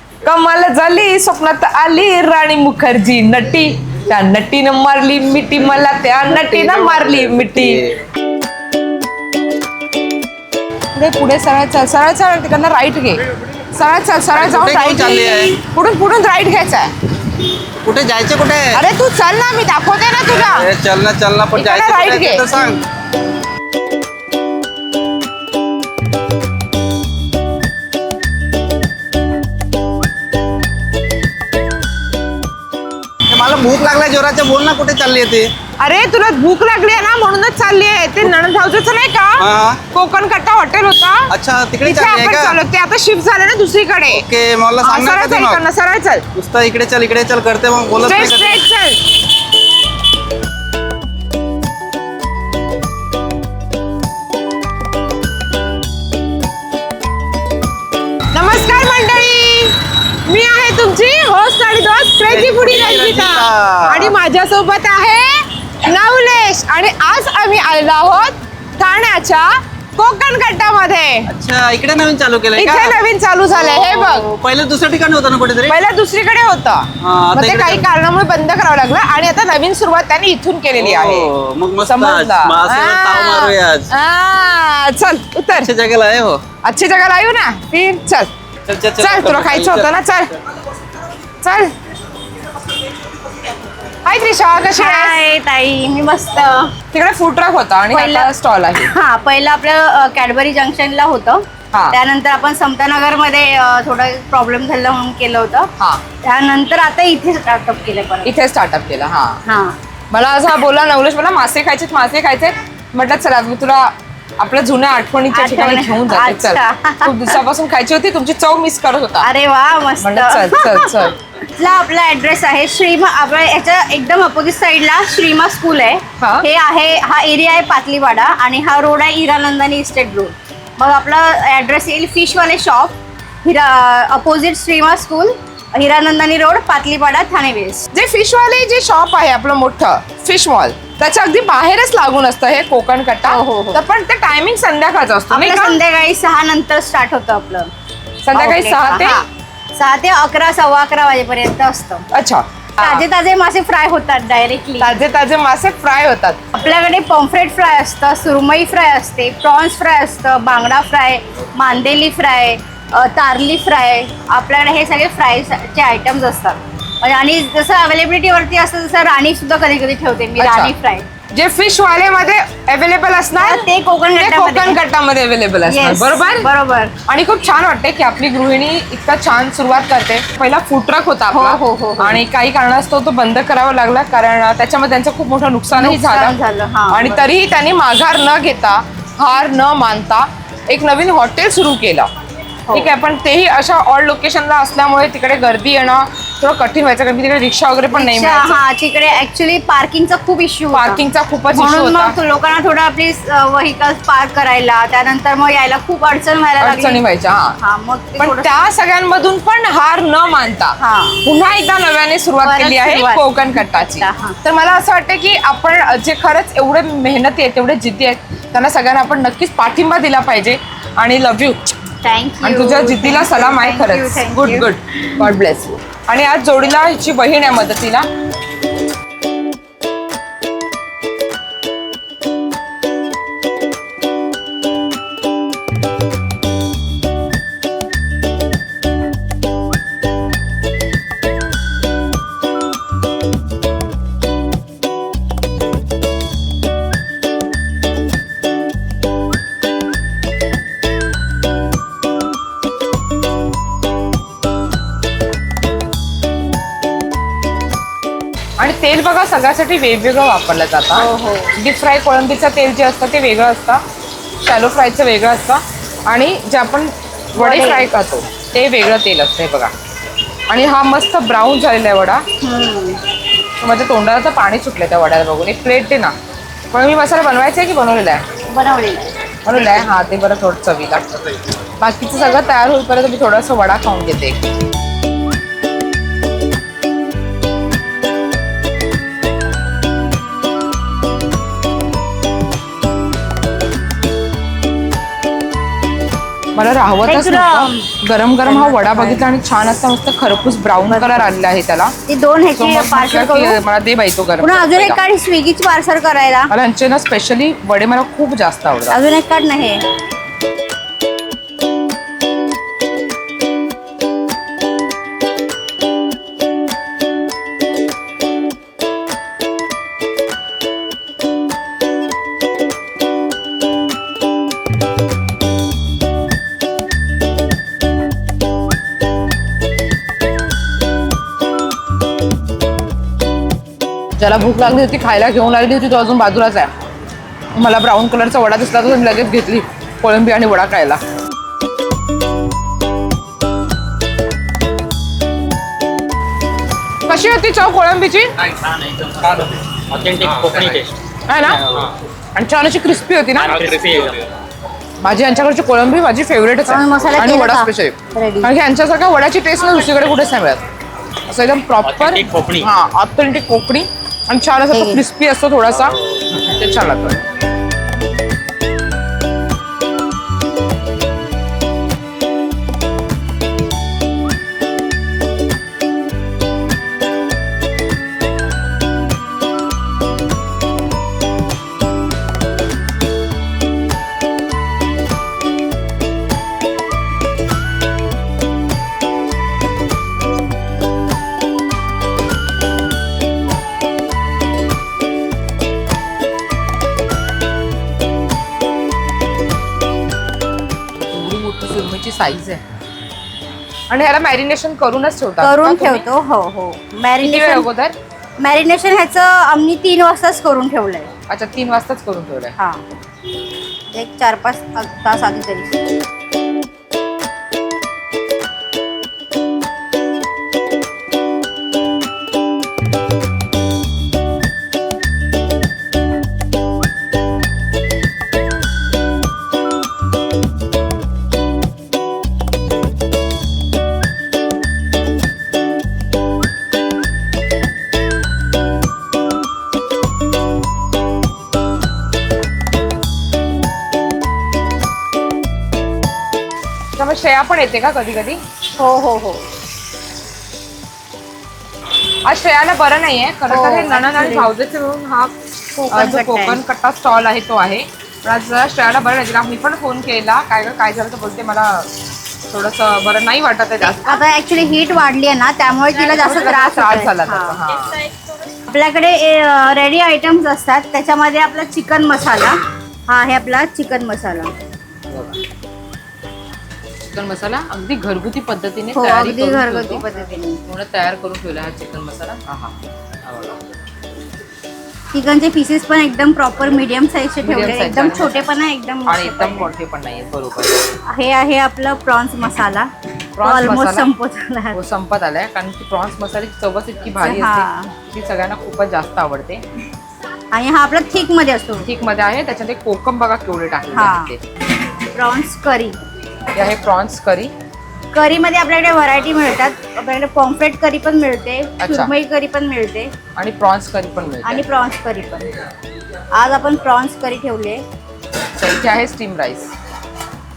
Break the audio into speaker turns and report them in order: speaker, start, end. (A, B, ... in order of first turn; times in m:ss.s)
0:00.2-0:07.8 A
0:06.3-0:07.9 B
0:10.9-0:16.9 A
0:14.3-0:15.6 B
0:17.8-0:18.8 B
0:18.7-0:20.7 A
0:20.4-0:22.8 B
0:21.5-0:22.5 A
0:33.3-0:35.5 B
0:35.8-0:44.2 A
0:39.4-0:39.8 B
0:41.3-0:42.6 B
0:44.1-0:45.6 B
0:44.8-0:46.2 A
0:46.3-0:48.6 B
0:48.0-0:49.0 A
0:58.3-1:11.3 A
1:02.2-1:04.2 B
1:11.3-1:13.0 B
1:12.5-1:14.3 A
1:13.5-1:15.7 B
1:15.6-1:21.3 A
1:17.0-1:17.8 B
1:20.7-1:23.9 B
1:21.8-1:25.7 A
1:25.6-1:26.4 B
1:26.6-1:28.3 A
1:28.6-1:29.9 B
1:29.0-1:30.3 A
1:31.4-1:31.7 A
1:34.0-1:35.2 A
1:34.7-1:36.7 C
1:36.9-1:38.9 A
1:37.9-1:45.7 C
1:41.7-1:42.0 A
1:46.2-1:48.3 C
1:48.2-1:49.4 A
1:49.4-1:49.8 C
1:50.1-1:59.3 A
1:55.3-1:57.4 C
1:59.2-2:01.0 C
2:00.0-2:01.2 A
2:01.6-2:17.8 C
2:06.2-2:06.5 A
2:17.9-2:25.8 A
2:23.3-2:23.8 C
2:25.3-2:27.7 C
2:28.2-2:29.2 A
2:28.3-2:29.2 C
2:29.7-2:32.0 C
2:32.1-2:33.0 A
2:32.8-2:34.9 C
2:34.8-2:36.4 A
2:36.5-2:51.0 C
2:50.4-2:50.7 A
2:51.3-2:56.5 A
2:53.3-2:54.8 C
2:55.7-2:56.9 C
2:57.1-3:06.3 A
3:01.3-3:02.2 C
3:05.8-3:07.3 C
3:06.9-3:12.1 A
3:12.7-3:18.6 A
3:17.9-3:27.0 C
3:20.7-3:22.1 A
3:26.6-3:27.6 A
3:27.6-3:28.6 C
3:28.2-3:41.7 A
3:30.8-3:31.2 C
3:32.4-3:34.4 C
3:42.0-3:44.7 C
3:42.4-3:48.1 A
4:18.6-4:23.8 A
4:20.9-4:21.5 C
4:24.4-4:29.7 A
4:27.4-4:27.9 C
4:30.5-4:32.2 A
4:32.4-4:33.0 C
4:33.6-4:36.1 A
4:36.7-4:38.2 A
4:38.5-4:39.1 C
4:39.4-4:41.0 A
4:41.8-4:44.4 A
4:56.5-5:01.9 A
4:57.0-4:57.9 C
4:58.4-4:59.3 C
5:00.9-5:01.3 C
5:02.1-5:03.6 C
5:02.6-5:05.0 A
5:04.4-5:06.5 C
5:06.5-5:09.0 A
5:08.9-5:09.8 C
5:34.2-5:36.7 A
5:37.5-5:41.0 A
5:47.0-5:48.3 A
5:48.4-5:51.0 D
5:51.2-5:51.6 A
5:52.3-5:53.7 A
5:53.4-5:54.3 D
5:55.0-6:00.6 A
5:56.7-5:58.5 C
6:01.2-6:07.2 A
6:01.8-6:02.7 D
6:04.7-6:05.0 C
6:41.0-6:42.6 A
6:43.9-6:46.0 A
6:45.4-6:47.7 C
6:47.2-6:47.9 A
6:48.4-6:51.1 C
6:51.3-6:52.5 A
6:53.9-6:55.8 C
7:27.0-7:28.4 A
7:28.8-7:29.4 C
7:32.2-7:35.3 A
7:33.5-7:34.5 C
7:35.8-7:36.6 C
7:35.9-7:41.9 A
7:42.5-7:44.2 A
7:43.8-7:47.6 C
7:45.9-7:48.0 A
7:48.7-7:54.5 C
7:55.1-7:55.4 A
7:57.0-8:00.0 A
7:58.9-8:00.6 C
8:00.6-8:03.6 A
8:05.1-8:09.7 C
8:07.4-8:08.5 A
8:09.1-8:10.9 A
8:11.1-8:12.9 C
8:13.4-8:14.1 A
8:13.4-8:14.8 C
8:14.7-8:19.6 A
8:17.2-8:17.9 C
8:20.5-8:21.9 C
8:21.8-8:24.4 A
8:23.9-8:24.3 C
8:25.1-8:26.0 C
8:26.5-8:27.5 A
8:28.1-8:33.1 C
8:31.8-8:32.1 A
8:33.4-8:34.6 A
8:34.4-8:35.5 C
8:36.3-8:37.8 C
8:38.6-8:39.7 A